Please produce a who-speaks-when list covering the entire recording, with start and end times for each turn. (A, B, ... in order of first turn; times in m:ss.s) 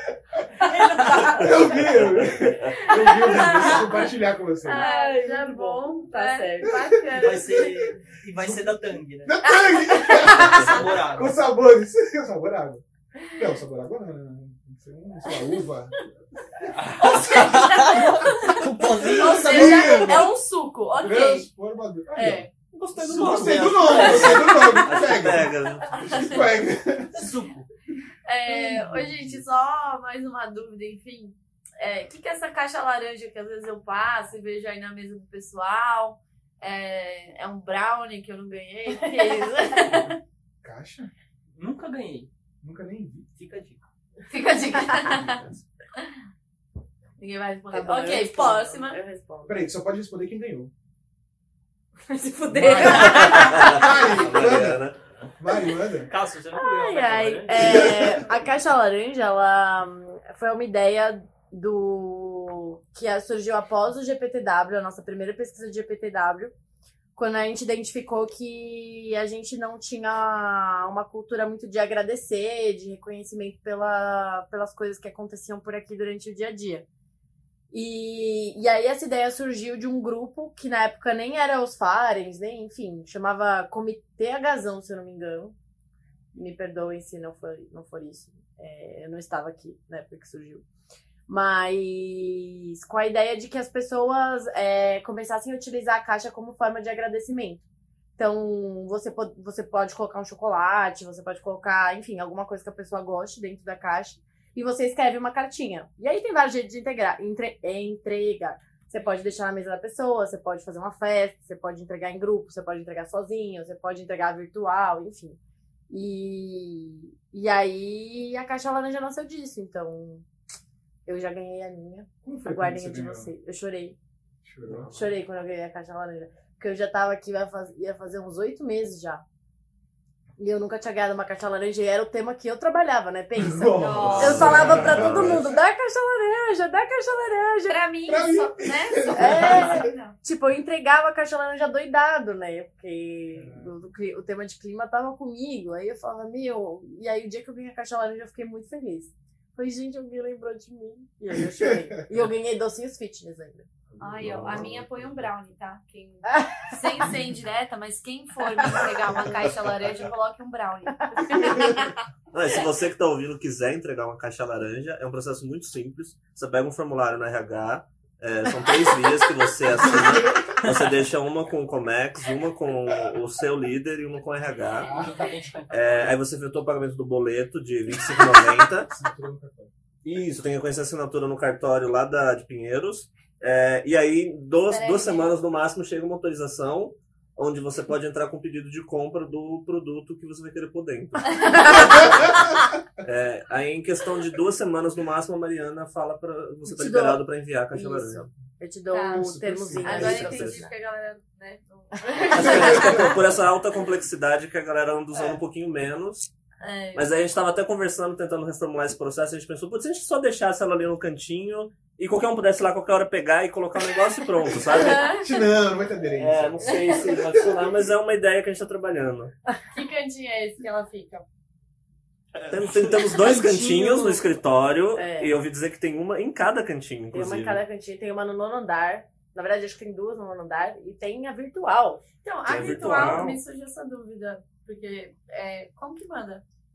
0:00.6-0:01.6 A
0:00.6-0:01.5 B
0:01.4-0:03.0 C
0:01.4-0:04.9 D
0:02.8-0:04.1 A
0:04.6-0:07.7 A
0:04.7-0:06.9 E
0:06.6-0:07.7 D
0:07.2-0:09.4 B
0:08.4-0:16.1 D
0:09.5-0:10.4 A
0:10.2-0:11.4 B
0:10.3-0:10.8 E
0:16.7-0:20.3 B
0:17.1-0:18.6 A
0:19.0-0:20.3 D
0:19.1-0:21.5 A
0:20.9-0:27.3 D
0:22.2-0:22.5 E
0:22.8-0:24.3 B
0:22.9-0:26.4 C
0:24.2-0:24.8 A
0:27.1-0:27.7 B
0:28.3-0:40.2 A
0:28.5-0:29.4 D
0:38.9-0:39.9 E
0:40.6-0:41.1 D
0:41.6-0:42.3 B
0:42.6-0:43.3 D
0:43.4-0:43.8 B
0:44.3-0:45.4 A
0:45.0-0:45.6 B
0:47.2-0:49.0 A
0:47.7-0:49.7 E
0:49.5-0:50.7 D
0:52.1-0:54.2 E
0:52.4-0:53.7 A
0:52.5-0:56.1 D
0:53.2-0:55.0 C
0:56.1-0:58.2 B
0:56.6-1:06.5 E
0:57.5-0:58.2 D
1:07.2-1:16.9 E
1:17.7-1:25.6 E
1:26.3-1:30.6 E
1:31.3-1:37.6 E
1:38.2-1:55.4 E
1:55.9-2:00.2 E
2:01.1-2:04.0 E
2:02.2-2:03.3 D
2:04.4-2:04.9 D
2:04.6-2:05.1 C
2:04.9-2:09.2 E
2:10.4-2:17.8 E
2:13.4-2:15.5 D
2:13.8-2:14.6 A
2:14.0-2:15.5 C
2:17.7-2:20.2 A
2:18.1-2:19.9 D
2:19.2-2:33.7 E
2:23.3-2:23.8 D
2:31.3-2:32.0 D
2:33.9-2:35.3 D
2:34.0-2:41.9 A
2:34.3-2:34.6 C
2:36.3-2:36.9 E
2:41.4-2:41.8 D
2:42.3-2:55.0 C
2:49.8-2:50.5 D
2:54.8-2:55.3 D
2:54.8-2:56.2 B
2:55.7-2:58.9 C
2:58.9-2:59.7 D
3:00.0-3:12.5 C
3:04.7-3:05.4 A
3:11.3-3:11.9 A
3:13.0-3:18.3 C
3:16.7-3:20.7 E
3:18.9-3:23.2 A
3:19.1-3:20.6 D
3:22.2-3:22.7 E
3:22.3-3:26.3 C
3:26.6-3:27.1 A
3:27.0-3:35.2 C
3:34.6-3:37.7 D
3:34.7-3:35.2 A
3:36.2-3:39.3 C
3:39.7-3:41.2 A
3:42.5-3:47.6 C
3:42.5-3:44.3 D
3:45.0-3:45.4 E
3:47.1-3:52.1 E
3:52.2-3:56.4 A
3:52.4-3:53.4 C